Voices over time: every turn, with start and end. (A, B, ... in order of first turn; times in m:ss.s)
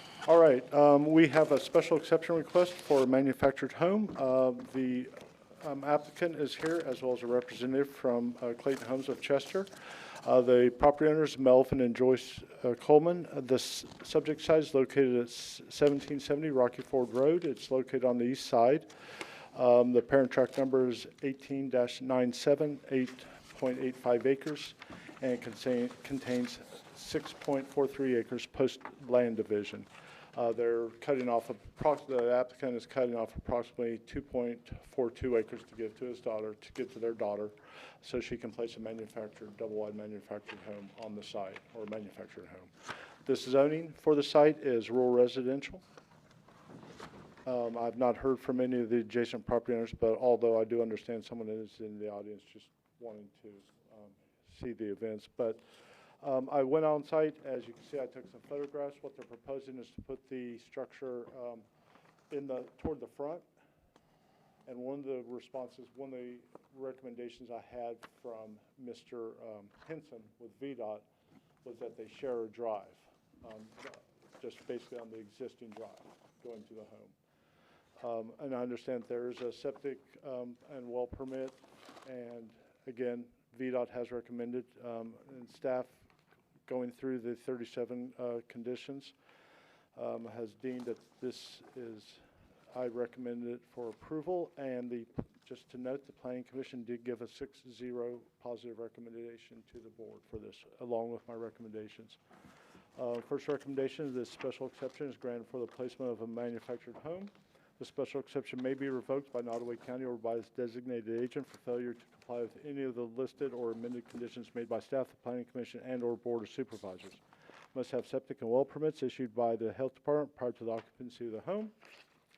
0:00.2-0:09.7 A
0:10.2-0:18.9 A
0:19.5-0:42.7 A
0:43.2-0:45.8 A
0:47.4-0:55.6 A
0:56.2-1:01.6 A
1:02.3-1:03.4 A
1:04.6-1:11.0 A
1:11.6-1:17.1 A
1:18.0-1:25.9 A
1:26.6-1:29.1 A
1:29.9-1:32.2 A
1:32.7-1:42.2 A
1:43.0-1:57.2 A
1:57.7-2:01.7 A